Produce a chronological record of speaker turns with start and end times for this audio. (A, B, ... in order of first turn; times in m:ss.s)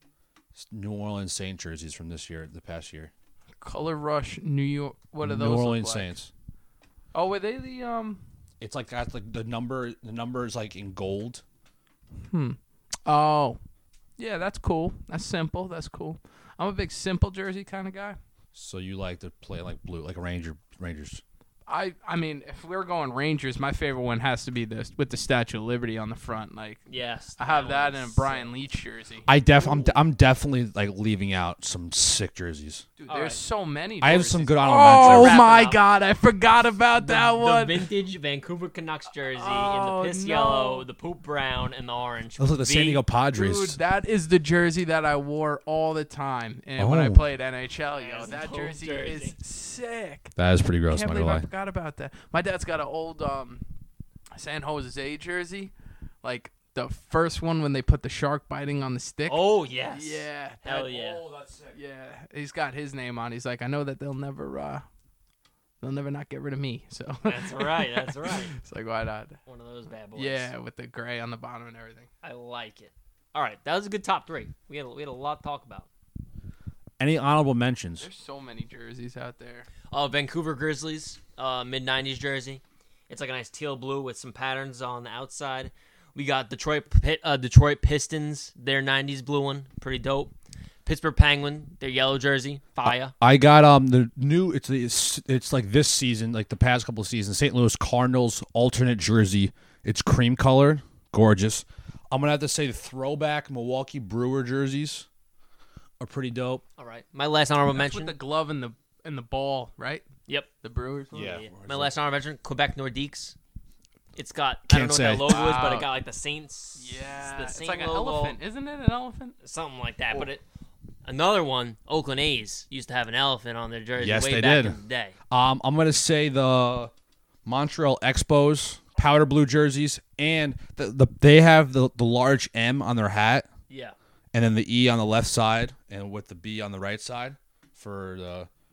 0:00.5-0:03.1 A
0:03.6-0:06.1 B
0:05.2-0:06.3 A
0:07.1-0:08.2 B
0:08.6-0:11.4 A
0:12.2-0:13.6 B
0:14.2-0:18.2 B
0:18.5-0:21.2 A
0:21.7-0:26.8 B
0:26.9-0:28.5 C
0:27.4-0:29.3 B
0:29.3-0:32.8 A
0:33.0-0:37.9 B
0:33.1-0:33.4 C
0:34.0-0:35.4 A
0:34.8-0:35.8 C
0:37.0-0:43.0 C
0:39.3-0:40.8 B
0:42.4-0:43.8 A
0:43.3-0:50.3 B
0:46.8-0:47.2 A
0:48.0-0:49.3 C
0:50.4-0:51.4 A
0:50.9-0:53.6 B
0:54.3-1:04.8 B
0:59.3-1:01.2 C
1:01.2-1:01.7 A
1:05.8-1:09.4 B
1:07.2-1:08.5 C
1:09.5-1:10.5 C
1:10.2-1:12.1 B
1:12.2-1:15.9 C
1:17.0-1:18.1 A
1:18.0-1:19.7 B
1:19.9-1:30.3 C
1:30.8-1:33.1 C
1:32.8-1:45.1 A
1:46.0-1:46.6 A
1:46.8-1:48.2 C
1:47.7-1:50.0 B
1:50.6-1:51.4 B
1:51.1-1:51.9 A
1:51.1-1:53.4 C
1:54.2-1:58.4 C
1:54.7-1:55.4 A
1:55.2-1:55.9 B
1:56.8-1:59.4 B
1:59.4-2:00.4 C
2:01.0-2:05.1 C
2:04.0-2:04.8 A
2:05.3-2:06.9 A
2:07.4-2:13.5 A
2:13.7-2:13.9 C
2:14.3-2:18.5 A